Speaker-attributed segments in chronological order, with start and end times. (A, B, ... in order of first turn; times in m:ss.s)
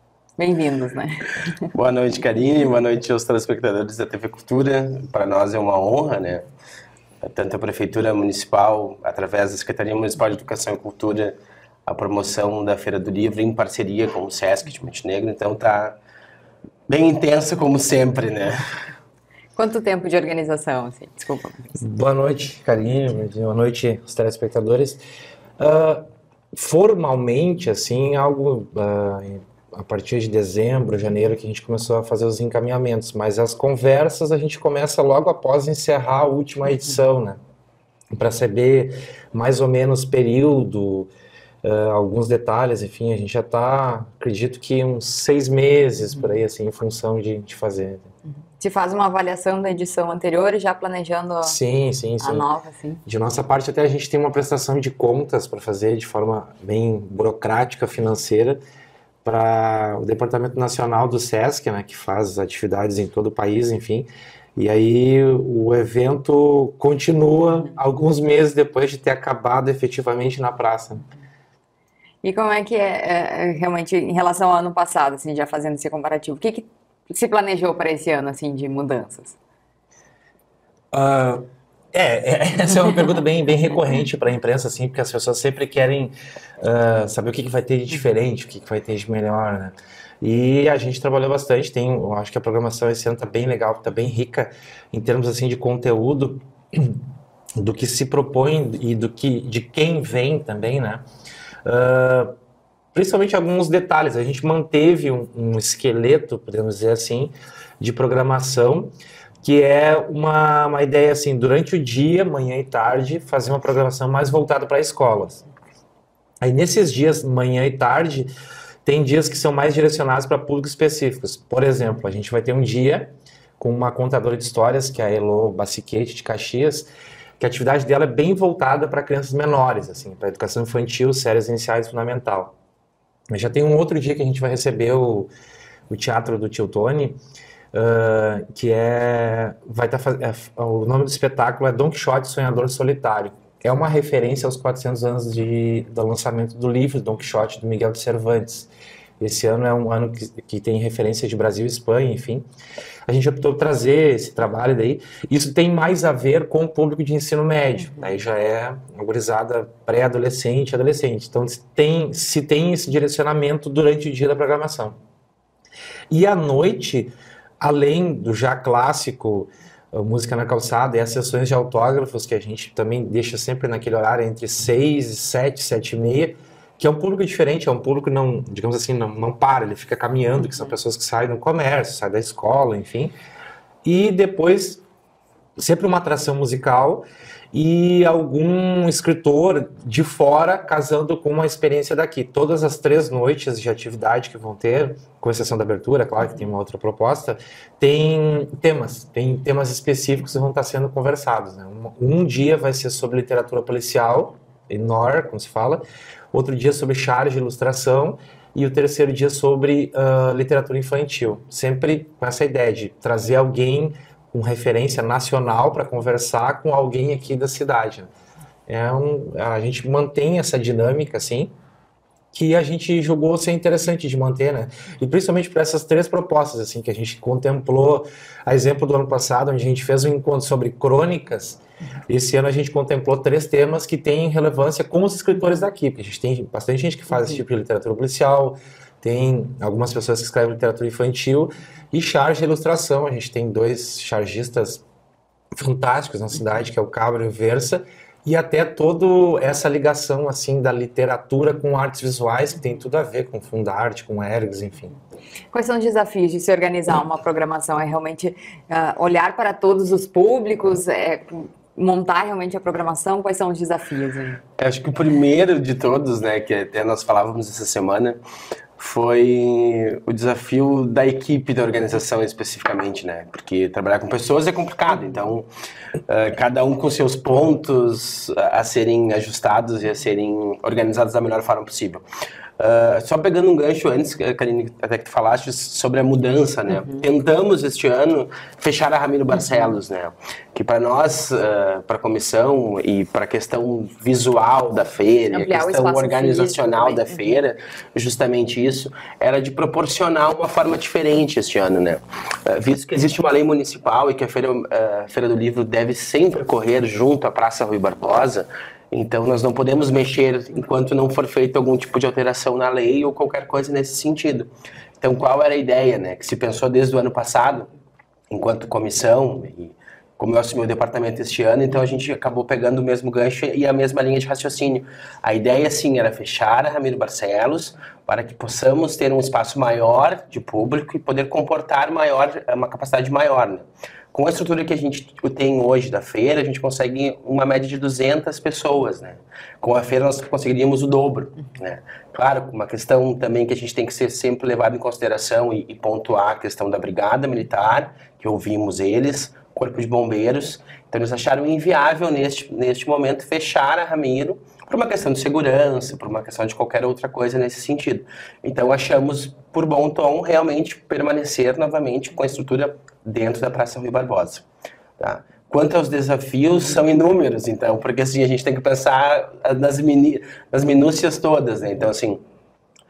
0:00.4-0:01.6 A
0:01.7-0:06.5 B
0:07.2-0:11.4 B
0:11.9-0:16.0 B
0:16.9-0:18.6 B
0:19.6-0:21.8 A
0:21.8-0:25.0 C
0:25.6-0:37.4 C
0:38.1-0:41.1 C
0:41.6-0:48.1 C
0:48.6-0:51.6 A
0:51.4-0:52.5 C
0:52.2-0:53.0 A
0:53.1-0:58.6 C
0:59.2-1:11.0 C
1:12.2-1:19.4 A
1:20.9-1:37.0 C
1:37.6-1:41.0 C
1:41.6-1:42.4 C
1:42.9-1:55.4 C
1:56.4-1:58.3 C
1:58.8-2:12.6 C
2:13.3-2:15.3 C
2:15.9-2:17.2 C
2:17.7-2:32.5 C
2:33.1-2:45.0 C
2:46.1-3:03.1 C
3:03.8-3:04.8 C
3:05.6-3:38.1 C
3:38.7-3:41.5 C
3:42.3-4:04.8 C
4:05.6-4:15.0 C
4:15.5-4:24.4 A
4:24.6-4:28.2 B
4:28.8-4:35.5 B
4:36.1-4:42.0 B
4:42.6-5:14.5 B
4:55.3-4:57.4 A
5:15.0-5:17.7 B
5:18.3-6:04.4 B
6:05.0-6:12.2 B